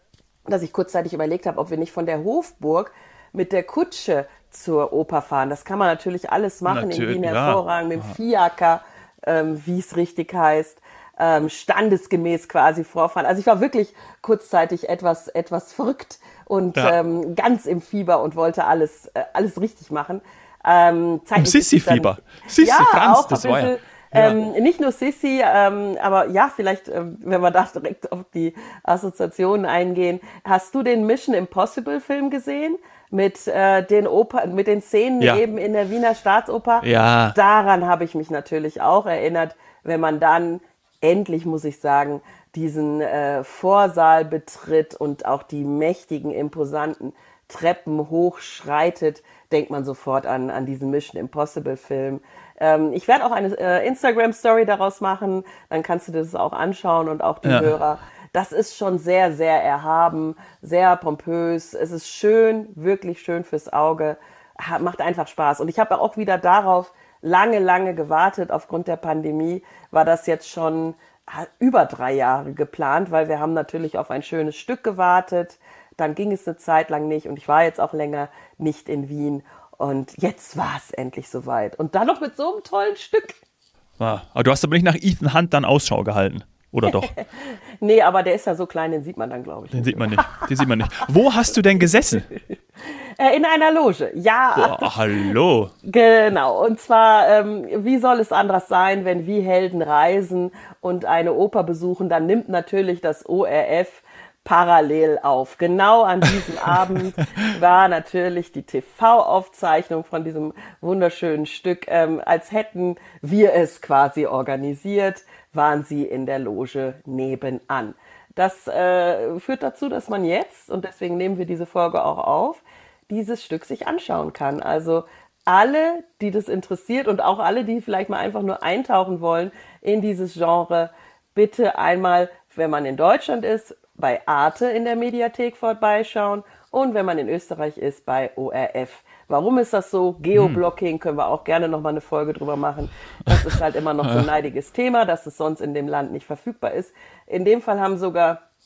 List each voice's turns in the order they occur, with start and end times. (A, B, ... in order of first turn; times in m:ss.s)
0:00.5-1:23.4 A
0:06.6-0:08.1 B
0:21.4-0:24.4 B
0:36.8-0:37.4 B
0:57.4-0:57.7 B
1:24.0-1:27.1 B
1:26.9-1:30.7 A
1:29.7-1:32.3 B
1:32.3-1:35.3 A
1:34.6-1:35.7 B
1:35.8-2:28.4 A
2:20.3-2:20.6 B